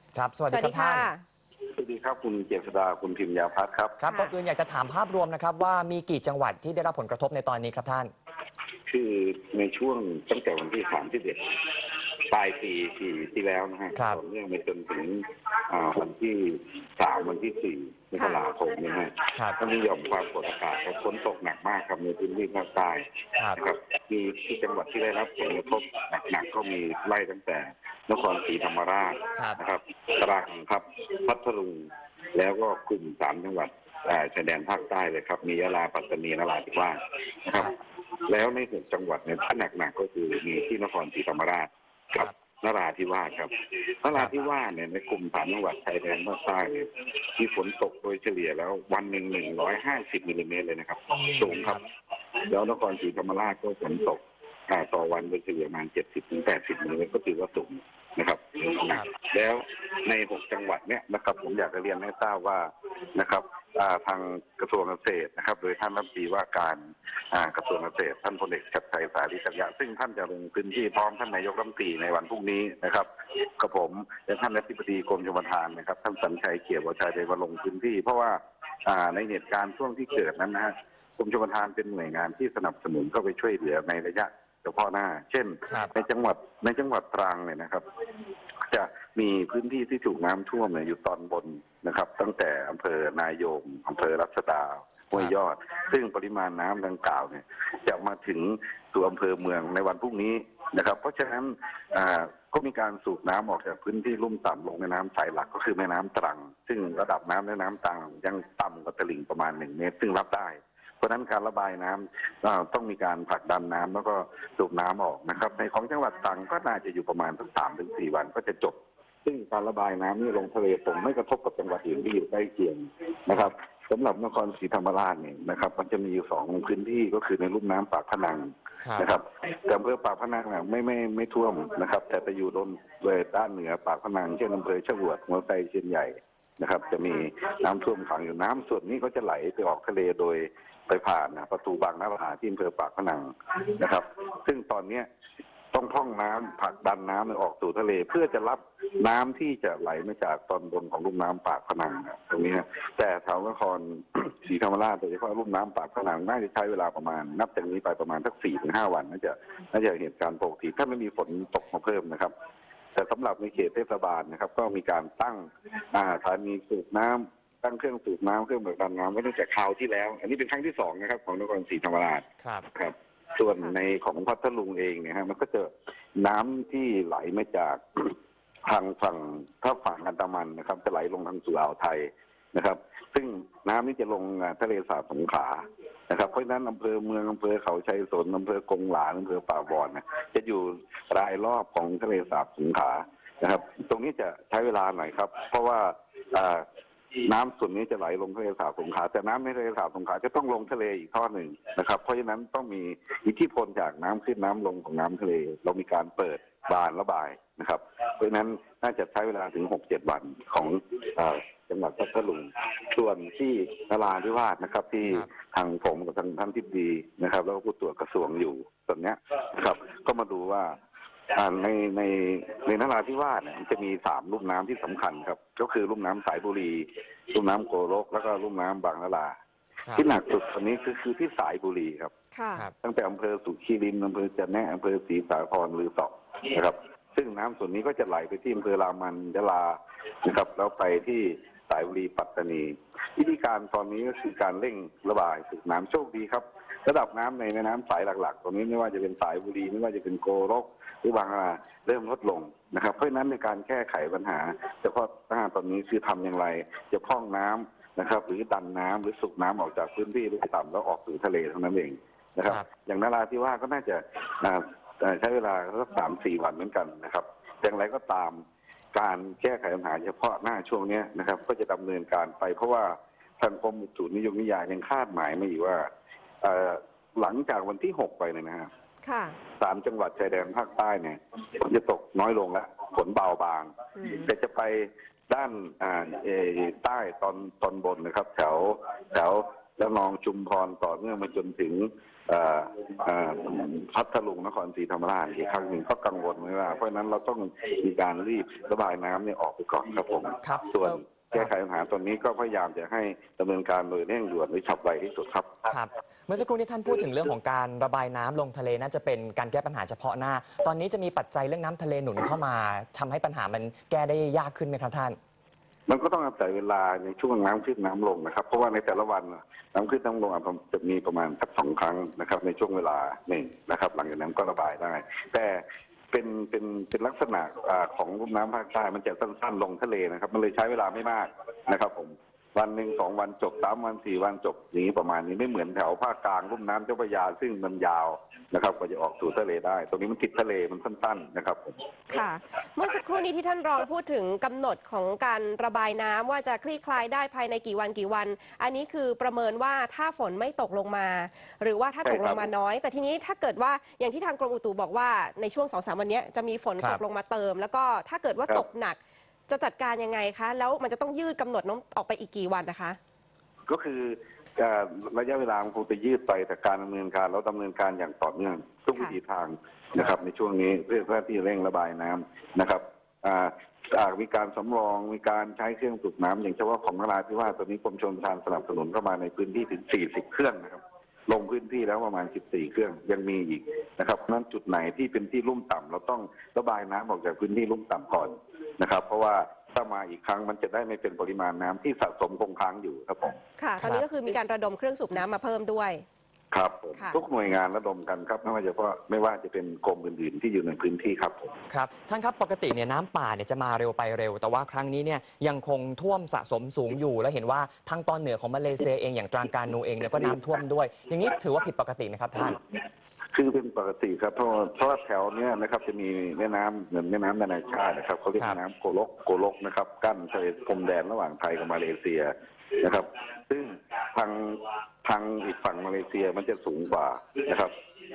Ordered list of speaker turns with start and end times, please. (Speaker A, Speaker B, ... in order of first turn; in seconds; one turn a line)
Speaker A: 0.2-1.1
Speaker B: 0.5-1.2
Speaker C: 1.8-4.0
Speaker A: 4.0-8.1
Speaker B: 4.1-4.3
Speaker C: 8.9-11.6
Speaker C: 12.3-37.8
Speaker A: 14.0-14.2
Speaker B: 18.1-18.4
Speaker C: 38.3-51.8
Speaker A: 51.2-51.8
Speaker C: 52.5-87.8
Speaker C: 88.7-145.1
Speaker C: 145.7-162.3
Speaker C: 162.9-178.2
Speaker A: 172.4-172.7
Speaker C: 178.7-196.7
Speaker C: 197.2-220.8
Speaker C: 221.3-229.3
Speaker C: 229.9-232.1
Speaker B: 232.3-232.7
Speaker C: 232.8-268.4
Speaker C: 268.9-275.9
Speaker C: 276.4-278.7
Speaker B: 279.0-279.4
Speaker C: 279.6-305.7
Speaker B: 284.0-284.3
Speaker A: 300.4-301.5
Speaker A: 305.7-315.2
Speaker C: 315.9-341.8
Speaker B: 342.1-363.0
Speaker C: 352.0-352.5
Speaker C: 363.7-393.4
Speaker B: 393.6-396.0
Speaker C: 396.5-401.5
Speaker B: 397.0-397.2
Speaker A: 401.7-412.6
Speaker C: 413.3-427.7